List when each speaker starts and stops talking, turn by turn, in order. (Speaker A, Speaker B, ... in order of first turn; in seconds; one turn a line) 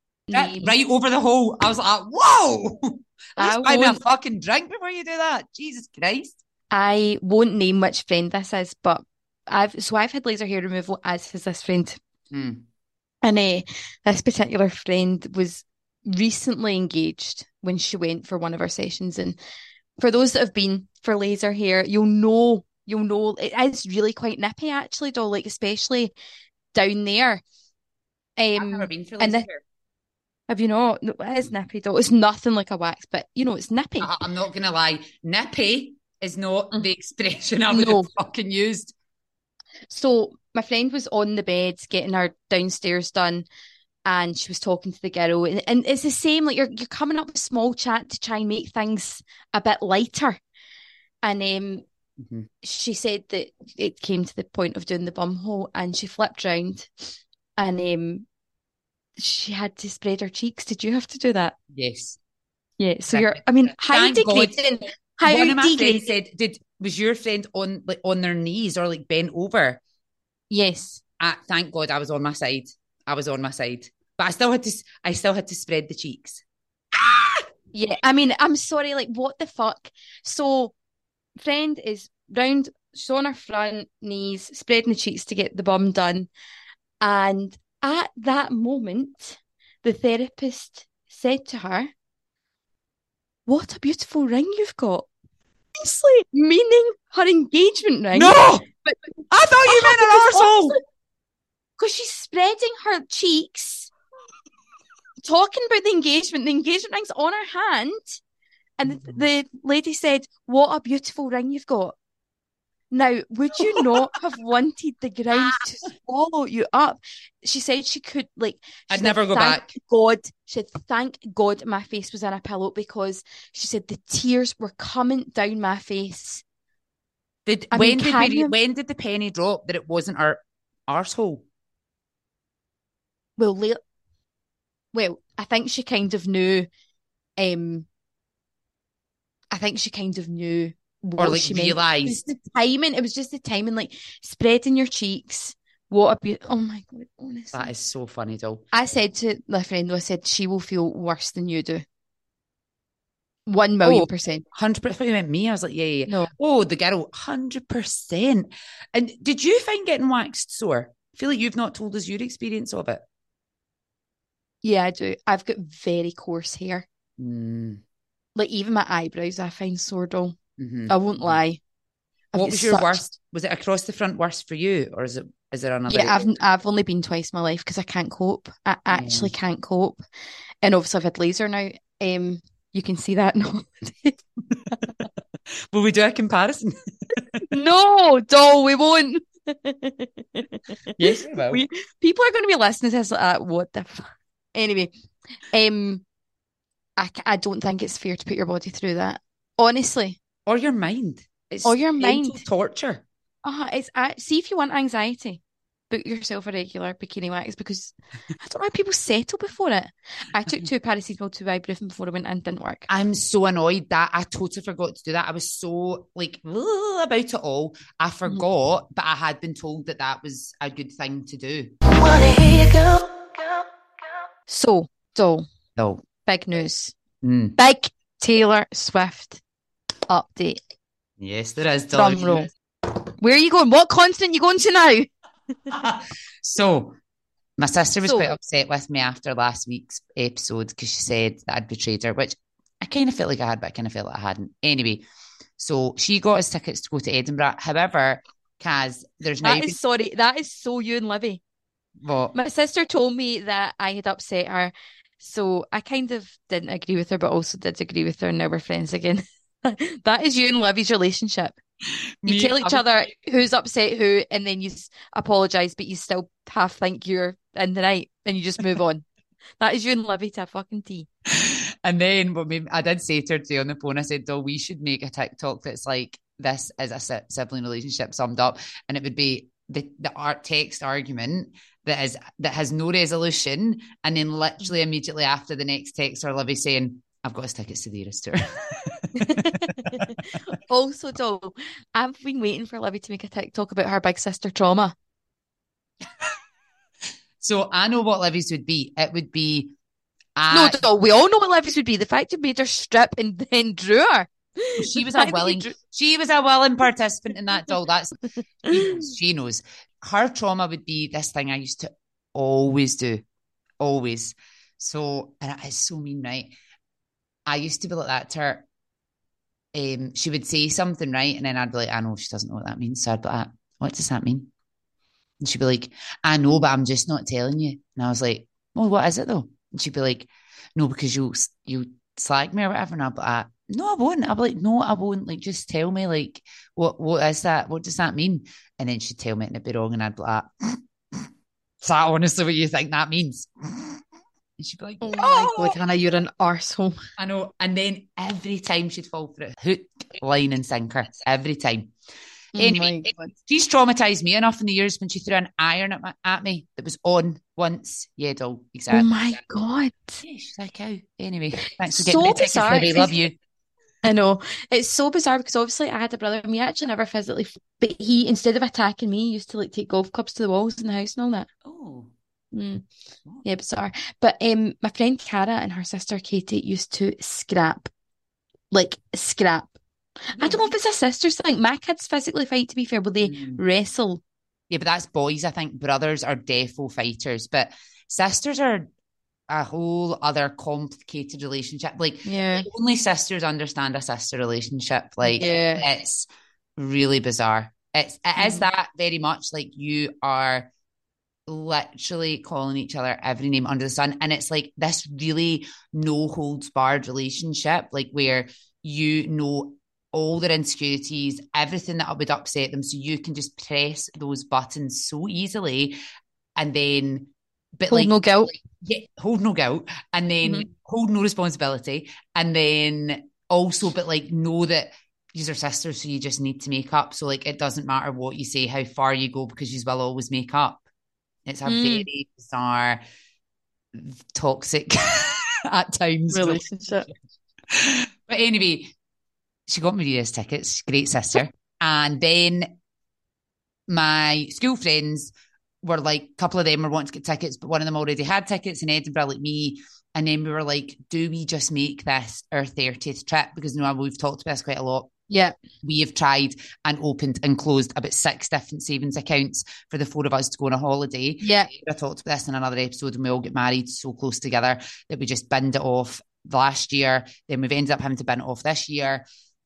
Speaker A: 0.3-0.7
Speaker B: 0.3-6.4
Speaker A: 3.4-4.0
Speaker A: 6.7-12.0
Speaker B: 12.3-12.6
Speaker A: 13.2-19.4
Speaker A: 20.0-26.1
Speaker A: 26.7-27.4
Speaker A: 28.4-29.5
Speaker B: 28.6-29.6
Speaker A: 30.5-34.1
Speaker B: 34.0-39.0
Speaker A: 37.7-38.1
Speaker A: 39.9-43.5
Speaker A: 44.0-50.4
Speaker A: 51.2-51.9
Speaker B: 52.2-52.5
Speaker A: 52.6-58.3
Speaker A: 59.2-61.6
Speaker B: 61.7-62.2
Speaker A: 62.8-66.1
Speaker B: 63.1-64.6
Speaker B: 65.2-69.8
Speaker A: 70.5-71.0
Speaker B: 71.2-76.4
Speaker B: 76.9-77.5
Speaker A: 77.7-80.7
Speaker A: 81.4-86.3
Speaker A: 87.0-91.9
Speaker A: 93.5-95.1
Speaker A: 95.8-99.1
Speaker B: 98.1-98.7
Speaker B: 99.3-100.8
Speaker A: 99.6-100.8
Speaker A: 101.8-103.9
Speaker A: 105.2-108.2
Speaker A: 108.8-112.0
Speaker B: 108.9-109.2
Speaker A: 112.9-126.4
Speaker B: 113.7-114.0
Speaker B: 115.3-115.7
Speaker B: 118.9-119.7
Speaker B: 127.5-131.4
Speaker A: 127.7-128.5
Speaker A: 133.4-133.8
Speaker A: 134.9-136.7
Speaker A: 137.4-137.9
Speaker A: 139.5-147.7
Speaker B: 141.2-142.2
Speaker B: 147.5-148.6
Speaker A: 148.7-151.8
Speaker A: 153.5-154.4
Speaker B: 153.8-163.0
Speaker A: 164.6-166.9
Speaker B: 167.2-167.8
Speaker A: 168.3-170.4
Speaker B: 170.6-171.4
Speaker A: 170.9-171.6
Speaker A: 172.3-173.1
Speaker B: 172.3-176.3
Speaker A: 175.9-180.0
Speaker B: 178.9-179.3
Speaker A: 180.6-184.2
Speaker B: 185.7-187.4
Speaker A: 187.5-194.9
Speaker B: 191.0-191.6
Speaker A: 195.5-196.0
Speaker A: 197.0-200.2
Speaker B: 200.5-203.0
Speaker A: 201.6-202.4
Speaker A: 203.4-212.9
Speaker B: 212.9-221.7
Speaker A: 224.5-225.5
Speaker B: 225.8-226.0
Speaker A: 226.2-227.0
Speaker B: 227.2-227.6
Speaker A: 227.6-229.4
Speaker A: 230.1-230.6
Speaker B: 231.2-232.5
Speaker A: 231.9-232.5
Speaker A: 233.2-235.1
Speaker B: 235.7-237.0
Speaker B: 237.6-245.1
Speaker A: 238.0-238.3
Speaker B: 245.6-249.8
Speaker A: 249.4-251.4
Speaker B: 252.0-252.3
Speaker A: 252.3-261.6
Speaker B: 262.2-262.8
Speaker A: 262.3-269.1
Speaker A: 269.6-271.1
Speaker B: 271.3-290.1
Speaker A: 289.2-294.9
Speaker B: 297.4-299.8
Speaker B: 300.4-300.9
Speaker A: 300.5-305.7
Speaker B: 304.8-313.2
Speaker A: 308.7-309.1
Speaker B: 313.8-316.5
Speaker B: 317.5-318.7
Speaker B: 319.7-324.5
Speaker B: 325.4-341.3
Speaker B: 341.8-344.0
Speaker B: 344.6-345.8
Speaker A: 345.0-347.0
Speaker B: 347.2-351.9
Speaker A: 352.6-353.3
Speaker B: 352.6-359.1
Speaker A: 358.9-360.2
Speaker B: 360.2-363.4
Speaker A: 361.9-363.2
Speaker A: 364.0-371.5
Speaker B: 371.6-372.1
Speaker A: 372.5-372.9
Speaker A: 373.4-377.9
Speaker A: 378.7-379.7
Speaker A: 380.3-384.2
Speaker B: 380.4-380.8
Speaker B: 383.2-383.6
Speaker B: 384.7-388.9
Speaker B: 389.5-400.7
Speaker A: 392.3-392.7
Speaker A: 395.2-395.9
Speaker A: 398.4-398.7
Speaker B: 401.5-416.0
Speaker B: 416.6-430.8
Speaker A: 417.9-418.5
Speaker A: 420.4-420.7
Speaker B: 431.5-433.0
Speaker A: 431.7-432.1
Speaker B: 433.9-437.1
Speaker A: 436.3-437.1
Speaker B: 437.7-438.9
Speaker B: 439.7-442.7
Speaker B: 443.9-455.1
Speaker A: 455.3-455.6
Speaker B: 455.8-469.2
Speaker A: 461.4-461.7